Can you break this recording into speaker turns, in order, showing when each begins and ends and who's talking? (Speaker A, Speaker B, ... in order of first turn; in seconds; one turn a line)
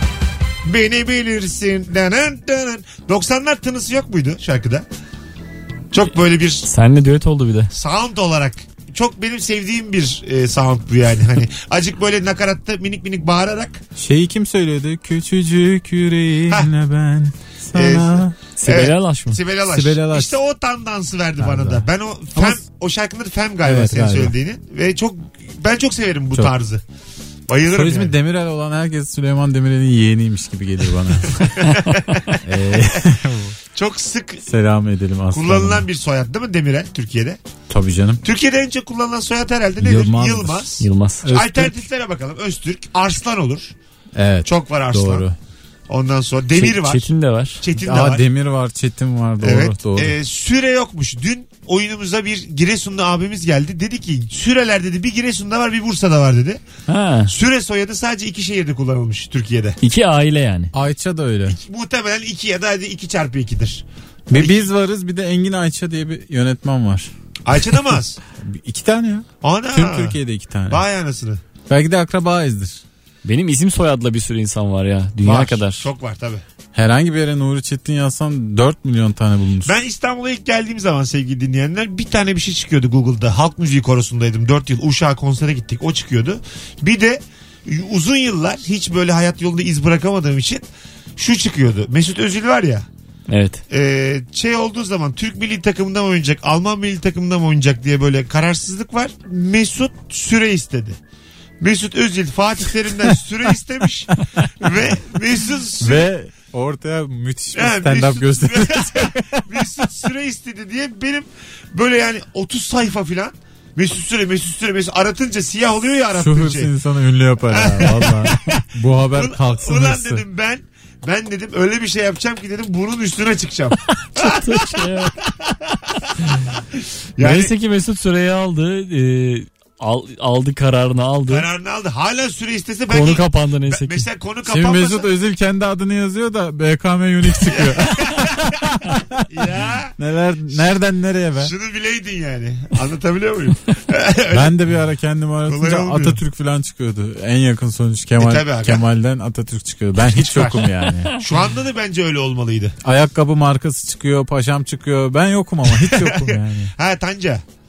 Speaker A: 0.6-4.8
Speaker A: 5.9-6.7
Speaker B: 6.7-7.7
Speaker A: 7.7-13.8
Speaker C: 14.0-18.3
Speaker A: 17.8-26.8
Speaker B: 18.6-19.4
Speaker C: 19.6-20.4
Speaker C: 21.4-21.8
Speaker C: 22.4-22.6
Speaker C: 23.6-24.3
Speaker A: 27.5-28.1
Speaker C: 27.7-31.5
Speaker A: 31.4-32.4
Speaker C: 32.4-33.5
Speaker A: 33.7-34.5
Speaker C: 34.5-35.9
Speaker A: 35.3-37.4
Speaker C: 37.7-38.2
Speaker A: 38.2-43.7
Speaker C: 39.8-40.7
Speaker B: 40.8-41.3
Speaker C: 41.2-41.9
Speaker C: 44.1-45.4
Speaker A: 44.5-45.3
Speaker A: 45.9-47.1
Speaker B: 46.5-47.6
Speaker A: 47.6-48.2
Speaker C: 47.8-50.2
Speaker A: 49.4-56.6
Speaker B: 56.9-57.3
Speaker A: 57.3-59.8
Speaker B: 59.8-60.7
Speaker C: 60.7-61.6
Speaker A: 61.5-64.7
Speaker C: 64.3-67.1
Speaker A: 67.5-68.2
Speaker C: 68.4-70.8
Speaker A: 69.4-70.2
Speaker A: 70.7-71.4
Speaker C: 71.7-72.8
Speaker B: 73.2-75.9
Speaker A: 75.2-76.4
Speaker C: 76.7-79.7
Speaker A: 79.7-90.6
Speaker A: 91.2-92.9
Speaker B: 93.3-93.6
Speaker A: 93.7-101.0
Speaker A: 101.6-106.1
Speaker C: 105.8-109.7
Speaker A: 107.5-116.7
Speaker C: 116.1-120.2
Speaker A: 117.5-127.5
Speaker B: 124.2-125.2
Speaker B: 127.2-131.5
Speaker A: 131.3-135.1
Speaker B: 132.9-134.0
Speaker C: 134.4-139.2
Speaker A: 137.4-138.3
Speaker A: 139.3-139.9
Speaker C: 140.0-141.5
Speaker A: 141.4-144.6
Speaker C: 144.3-151.1
Speaker A: 145.4-146.2
Speaker A: 148.2-148.8
Speaker A: 150.1-150.6
Speaker A: 151.2-152.8
Speaker C: 152.8-156.7
Speaker A: 155.7-157.4